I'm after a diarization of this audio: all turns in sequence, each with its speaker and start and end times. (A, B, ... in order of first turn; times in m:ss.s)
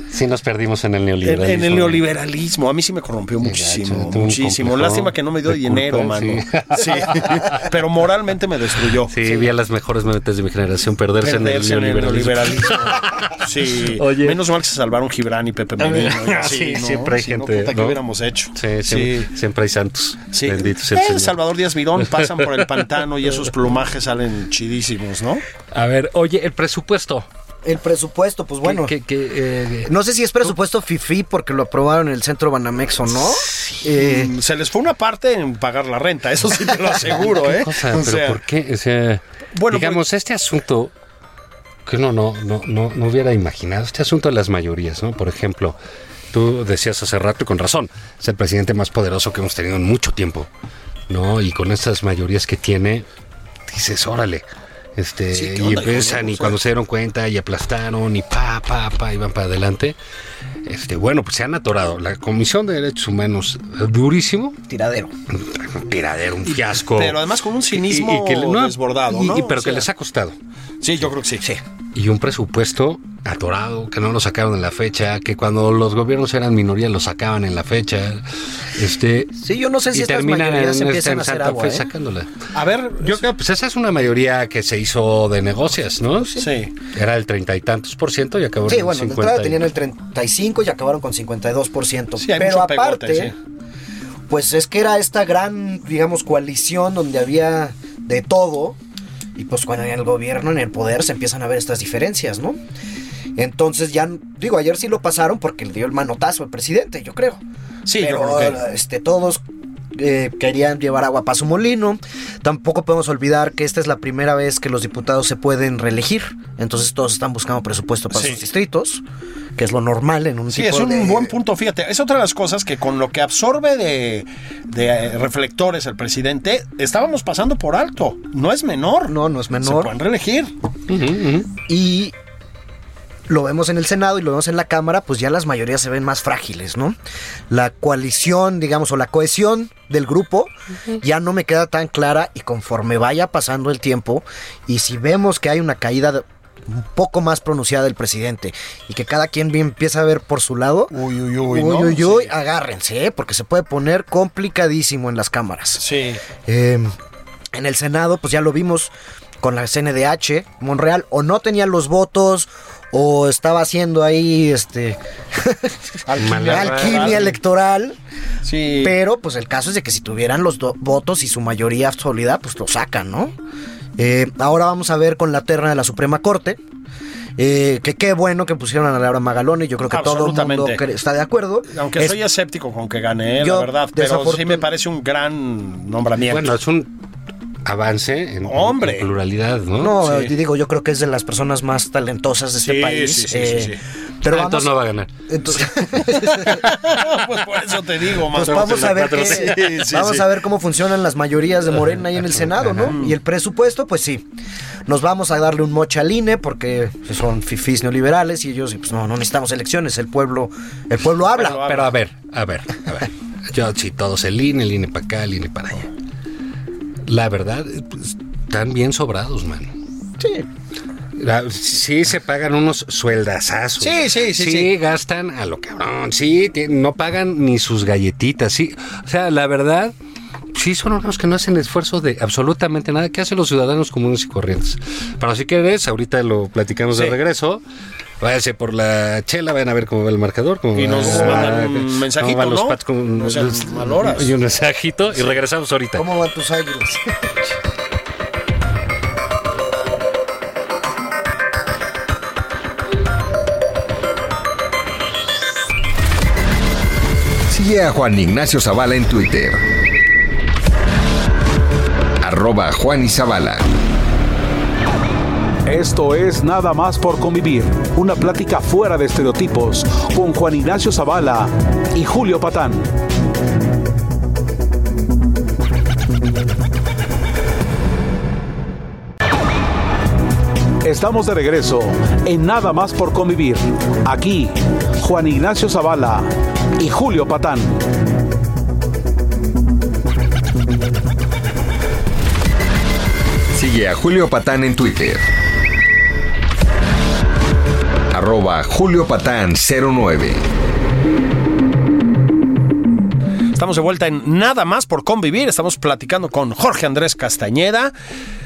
0:00.1-0:02.0 A
0:01.2-0:09.5 B
0:03.4-0:07.7 A
0:09.1-0:13.4 A
0:11.2-0:19.3 B
0:13.9-0:14.4 A
0:15.8-0:18.0 A
0:18.6-0:21.4 A
0:20.3-0:25.4 B
0:22.0-0:22.7 A
0:25.7-0:27.3 A
0:27.6-0:29.0 C
0:28.6-0:29.9 A
0:29.8-0:34.3 C
0:33.9-0:38.4 B
0:37.2-0:40.9 A
0:39.5-0:40.0 B
0:41.9-0:45.8 A
0:46.3-0:50.5 A
0:51.1-0:53.1 A
0:53.7-0:54.4 A
0:55.0-1:00.0 A
0:55.3-0:56.6 B
1:00.6-1:04.6 A
1:04.7-1:05.1 C
1:05.3-1:07.2 A
1:06.4-1:09.9 B
1:07.7-1:10.4 A
1:10.8-1:11.4 B
1:12.0-1:19.4 A
1:19.4-1:21.9 C
1:19.9-1:22.3 A
1:22.5-1:23.2 B
1:23.0-1:29.6 A
1:26.4-1:26.7 B
1:28.7-1:33.3 C
1:32.2-1:33.3 B
1:34.3-1:38.8 C
1:39.4-1:42.6 C
1:43.4-1:47.4 C
1:47.9-1:48.6 B
1:48.0-1:49.4 C
1:50.0-1:59.0 C
1:58.1-1:58.4 B
1:59.6-2:01.3 C
2:00.5-2:10.5 B
2:09.1-2:09.9 C
2:10.9-2:11.5 A
2:11.7-2:12.2 C
2:13.3-2:17.0 C
2:17.5-2:31.0 C
2:30.9-2:32.3 B
2:31.5-2:35.8 C
2:35.8-2:36.2 B
2:36.4-2:36.9 C
2:37.5-2:48.0 C
2:46.1-2:47.4 B
2:46.2-2:47.3 A
2:48.4-2:49.0 B
2:48.8-2:53.3 C
2:54.0-2:56.6 C
2:57.4-3:02.2 C
2:59.9-3:00.8 B
3:01.7-3:06.6 B
3:03.4-3:04.7 C
3:06.2-3:06.9 A
3:07.6-3:10.0 A
3:08.4-3:09.1 B
3:09.8-3:16.8 C
3:10.0-3:10.3 B
3:12.6-3:13.8 B
3:14.3-3:15.1 A
3:16.2-3:20.3 B
3:18.3-3:24.2 C
3:18.4-3:19.8 A
3:22.9-3:23.2 B
3:24.9-3:31.7 C
3:31.3-3:32.0 B
3:31.6-3:35.9 A
3:37.0-3:39.7 A
3:40.2-3:40.5 C
3:41.2-3:49.9 A
3:43.8-3:44.7 B
3:50.5-3:57.6 A
3:56.9-3:57.2 B
3:58.2-4:06.0 A
4:00.8-4:04.3 B
4:06.0-4:07.3 C
4:17.5-4:19.6 D
4:22.2-4:23.7 D
4:25.7-4:32.9 E
4:40.8-4:47.8 E
4:53.5-4:55.2 D
4:58.1-5:00.4 D
5:03.6-5:07.9 B